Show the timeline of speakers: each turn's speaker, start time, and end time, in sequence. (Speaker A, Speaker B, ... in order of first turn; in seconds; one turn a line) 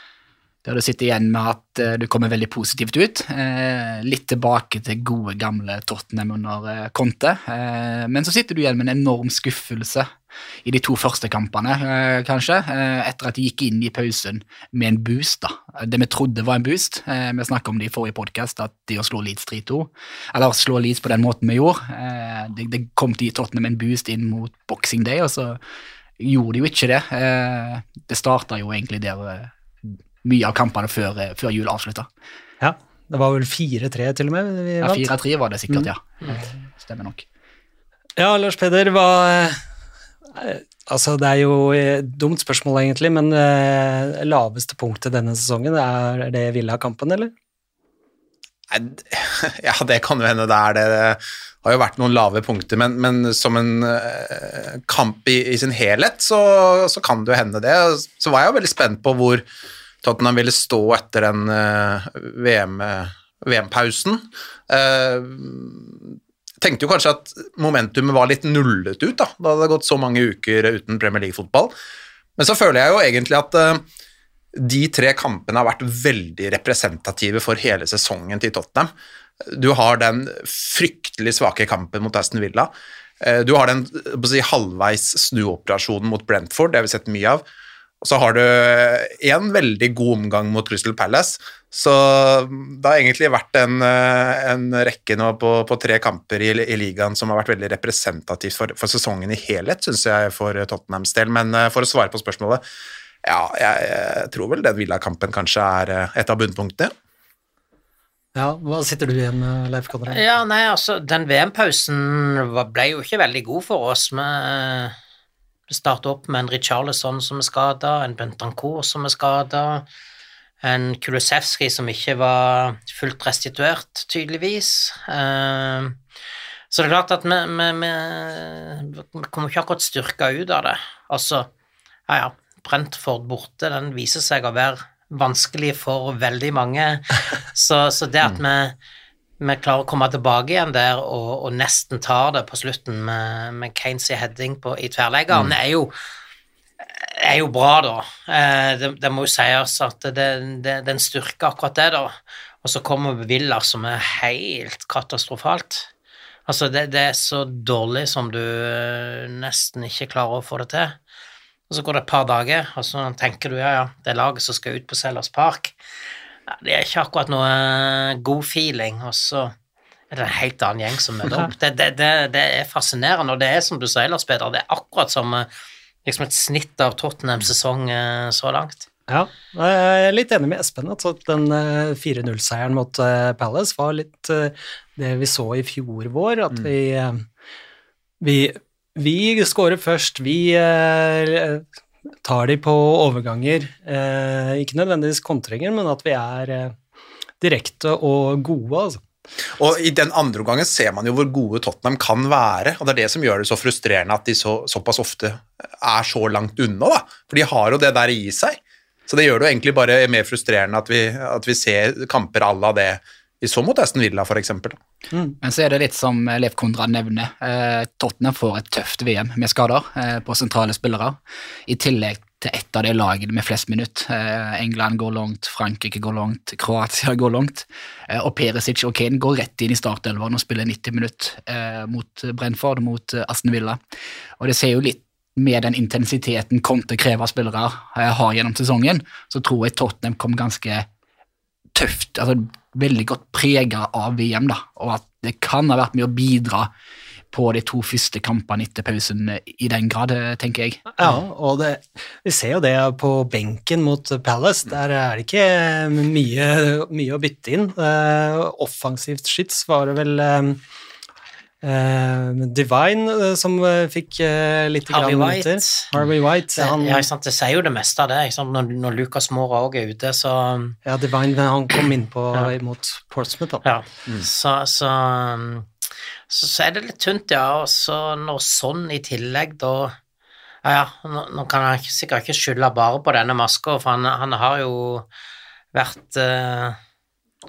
Speaker A: 0.6-10.1
Speaker A: 10.6-25.6
Speaker A: 26.2-32.1
Speaker B: 32.6-35.1
Speaker A: 34.8-37.2
Speaker B: 38.2-39.6
Speaker B: 40.3-47.3
Speaker C: 48.7-59.4
Speaker C: 60.0-71.7
Speaker C: 72.4-73.8
Speaker C: 74.5-78.9
Speaker C: 79.4-82.7
Speaker C: 83.2-87.4
Speaker C: 88.0-102.6
Speaker C: 103.2-106.9
Speaker B: 108.3-110.2
Speaker D: 110.1-114.9
Speaker D: 115.7-119.8
Speaker D: 120.6-126.0
Speaker D: 126.7-131.5
Speaker D: 132.1-138.8
Speaker D: 139.4-145.9
Speaker D: 146.9-155.9
Speaker D: 156.5-161.0
Speaker D: 161.7-165.7
Speaker D: 166.5-169.5
Speaker D: 170.1-175.5
Speaker D: 176.0-178.8
Speaker B: 179.1-187.2
Speaker B: 188.2-191.6
Speaker B: 192.2-196.8
Speaker B: 197.4-199.0
Speaker C: 199.6-214.8
Speaker A: 215.4-233.8
Speaker A: 234.4-240.9
Speaker A: 241.7-246.7
Speaker A: 247.3-250.8
Speaker B: 251.0-260.6
Speaker B: 261.6-267.0
Speaker D: 264.9-265.9
Speaker D: 266.6-270.8
Speaker B: 270.8-273.6
Speaker D: 273.6-275.7
Speaker D: 276.3-279.9
Speaker D: 280.6-285.1
Speaker D: 285.7-286.8